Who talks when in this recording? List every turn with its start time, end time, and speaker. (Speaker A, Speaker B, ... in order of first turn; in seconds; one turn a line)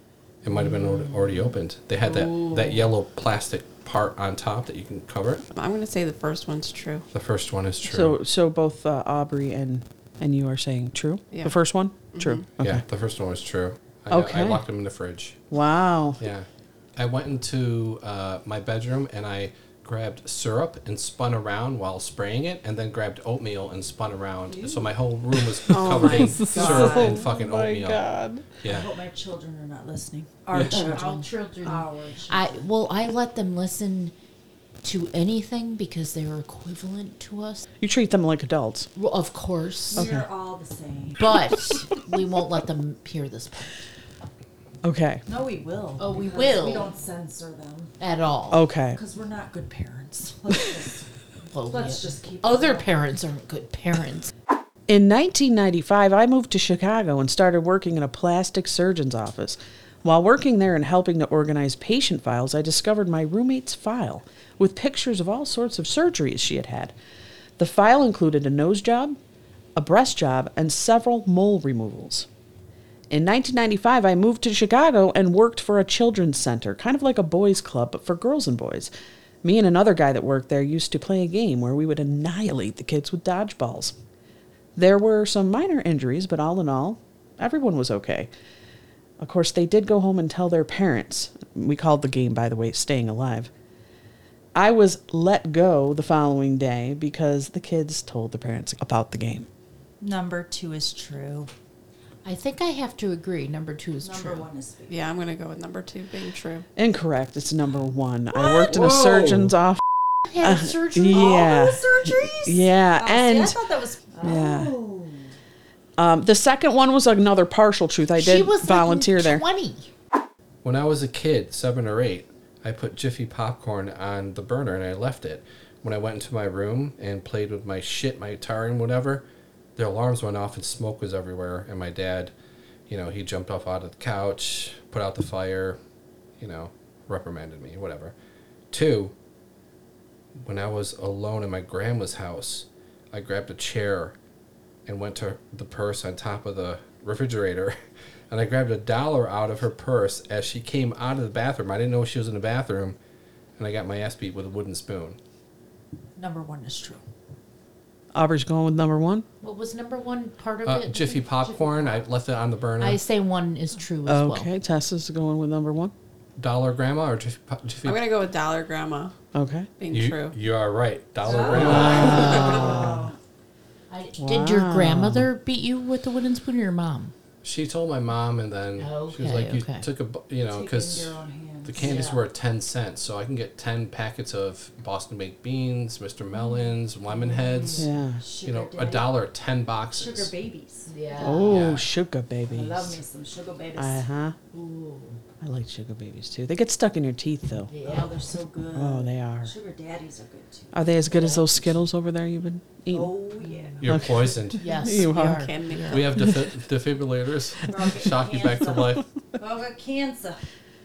Speaker A: 0.4-5.4
Speaker B: 2.0-2.9
Speaker C: 5.5-7.0
Speaker A: 7.1-8.2
Speaker D: 7.8-12.8
Speaker C: 11.3-11.6
Speaker C: 12.1-12.5
Speaker A: 12.6-15.4
Speaker D: 14.1-14.6
Speaker D: 15.5-16.2
Speaker A: 16.2-28.0
Speaker D: 25.7-28.4
Speaker E: 25.9-27.0
Speaker C: 26.5-27.1
Speaker A: 28.6-28.9
Speaker E: 28.6-32.6
Speaker A: 30.5-31.0
Speaker B: 30.7-34.1
Speaker B: 34.8-37.6
Speaker D: 37.8-38.9
Speaker B: 39.0-40.1
Speaker E: 39.9-41.5
Speaker D: 40.0-40.2
Speaker B: 41.1-43.7
Speaker D: 44.8-45.2
Speaker E: 45.2-47.9
Speaker B: 46.0-46.9
Speaker B: 48.0-48.6
Speaker D: 48.5-49.0
Speaker E: 48.9-51.0
Speaker B: 51.5-54.3
Speaker E: 51.7-52.9
Speaker D: 54.9-66.9
Speaker D: 67.6-69.2
Speaker D: 69.8-72.3
Speaker D: 73.1-78.9
Speaker D: 79.4-84.0
Speaker D: 84.8-88.3
Speaker D: 89.2-93.5
Speaker D: 94.5-99.5
Speaker E: 100.0-101.5
Speaker B: 102.2-104.5
Speaker E: 104.0-105.0
Speaker C: 104.9-106.7
Speaker D: 106.8-109.8
Speaker A: 108.7-109.5
Speaker B: 110.3-111.4
Speaker D: 110.4-113.6
Speaker E: 111.1-115.3
Speaker D: 114.2-114.8
Speaker D: 116.0-119.4
Speaker B: 118.2-119.9
Speaker A: 120.6-129.2
Speaker A: 129.8-132.3
Speaker A: 132.9-135.8
Speaker A: 136.4-138.1
Speaker A: 138.7-139.1
Speaker A: 140.4-144.2
Speaker A: 144.8-147.8
Speaker A: 148.3-153.0
Speaker A: 153.6-155.2
Speaker E: 156.2-157.0
Speaker D: 158.1-159.2
Speaker B: 159.4-162.0
Speaker A: 160.6-163.0
Speaker B: 162.8-164.5
Speaker D: 164.1-165.9
Speaker A: 166.4-168.0
Speaker C: 167.8-169.1
Speaker D: 169.3-169.7
Speaker C: 169.8-170.3
Speaker A: 169.9-172.7
Speaker E: 171.2-173.1
Speaker D: 171.6-173.1
Speaker C: 171.9-172.6
Speaker B: 173.9-177.1
Speaker D: 174.2-175.3
Speaker A: 177.4-187.9
Speaker B: 178.8-179.8
Speaker E: 180.4-182.0
Speaker B: 181.8-182.2
Speaker E: 187.1-189.2
Speaker D: 187.8-188.2
Speaker A: 188.4-190.3
Speaker E: 189.9-191.4
Speaker B: 190.9-191.6
Speaker D: 191.2-193.0
Speaker A: 191.5-191.8
Speaker E: 192.5-194.0
Speaker D: 193.8-194.3
Speaker B: 194.5-195.2
Speaker D: 195.4-197.7
Speaker B: 197.7-198.1
Speaker E: 197.8-200.7
Speaker D: 198.7-199.5
Speaker D: 200.7-203.1
Speaker B: 201.1-201.5
Speaker E: 202.9-203.9
Speaker A: 203.8-204.6
Speaker D: 203.9-206.3
Speaker B: 204.6-205.3
Speaker C: 205.0-206.1
Speaker A: 205.9-209.0
Speaker E: 207.7-210.4